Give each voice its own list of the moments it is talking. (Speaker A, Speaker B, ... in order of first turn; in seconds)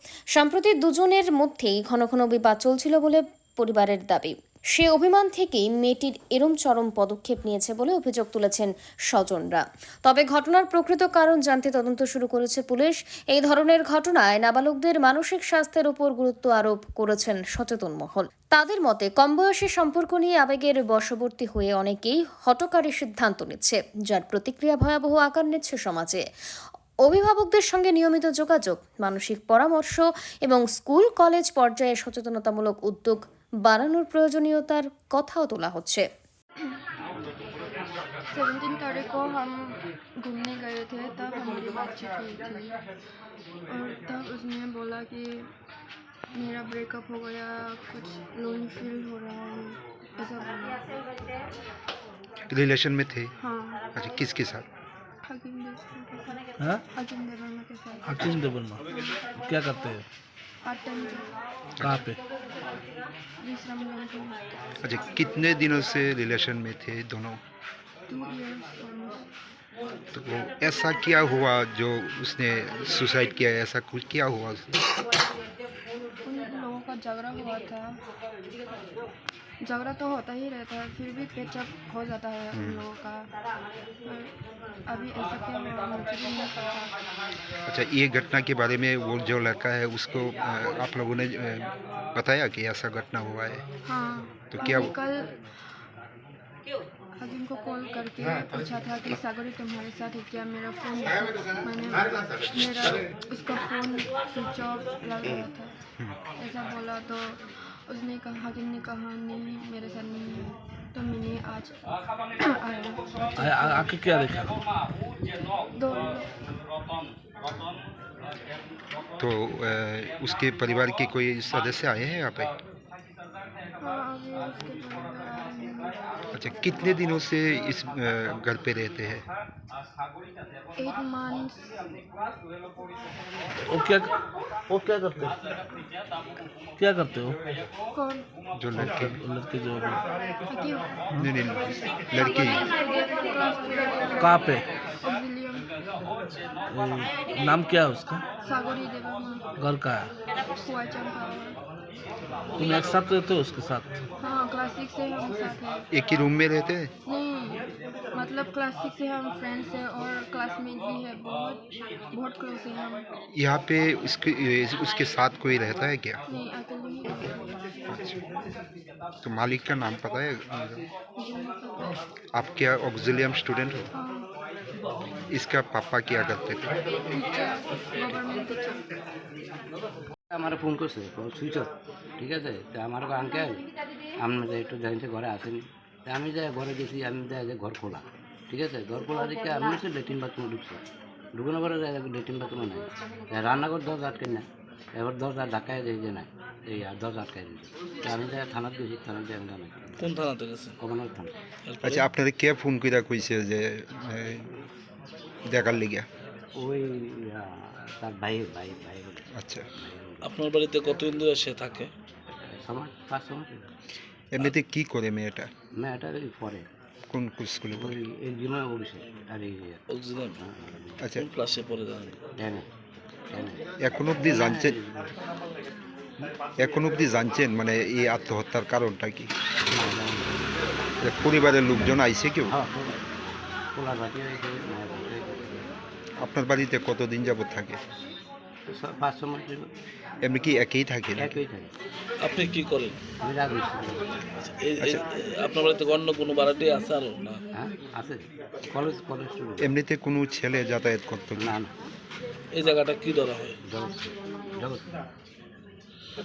Speaker A: 0.3-26.2, 27.0-36.0
Speaker B: 38.3-42.8, 43.7-45.5, 46.3-50.9, 53.4-53.8, 55.3-58.3, 58.9-59.2, 60.6-61.3, 63.4-64.4, 68.1-69.3, 76.2-78.0, 79.6-83.3, 84.0-84.3, 84.9-86.9, 93.8-95.3, 97.2-105.7, 106.4-113.6, 115.8-116.3, 123.8-125.9, 130.8-131.8, 137.9-138.2, 140.5-140.9, 142.1-144.5, 145.0-145.7, 148.4-149.5, 150.5-151.6, 154.2-155.8, 157.1-163.1, 166.3-167.6, 171.2-172.0, 173.9-174.3, 177.1-178.8
Speaker C: 52.5-53.3, 54.0-54.6, 61.8-62.0, 64.8-67.4, 70.1-74.8, 82.5-82.8, 87.7-93.6, 94.5-94.9, 119.2-122.5, 126.3-129.2, 138.6-139.2, 141.2-142.6, 155.9-156.9, 163.3-166.2, 167.9-168.2, 169.2-170.8, 172.3-173.9, 175.3-176.7, 201.8-204.5, 205.5-206.1, 209.3-209.7, 214.3-215.5, 217.1-218.0, 221.0-221.3, 223.8-224.8, 226.6-229.3, 231.0-232.5, 236.2-237.8, 240.2-241.4, 249.6-251.6
Speaker D: 58.0-58.8, 59.4-60.0, 61.8-62.2, 113.4-114.5, 133.7-134.1, 134.7-135.3, 136.8-137.4, 138.8-140.0, 144.2-144.7, 146.7-148.2, 149.6-150.1, 152.6-154.0, 200.0-200.8, 201.7-202.1, 210.2-211.9, 219.9-220.4, 221.2-222.2, 242.2-243.0, 244.4-247.4, 252.5-253.6
Speaker E: 180.3-183.7, 184.2-190.8, 191.3-200.1, 200.8-201.3, 206.6-210.3, 212.5-213.7, 215.8-216.7, 217.8-219.8, 220.3-221.0, 222.4-222.7, 223.3-223.7, 224.2-225.1, 229.7-230.4, 232.5-233.0, 233.7-235.7, 238.7-239.7, 241.2-241.7, 243.2-244.2, 247.5-249.7, 251.4-251.7, 253.6-254.0, 254.5-255.0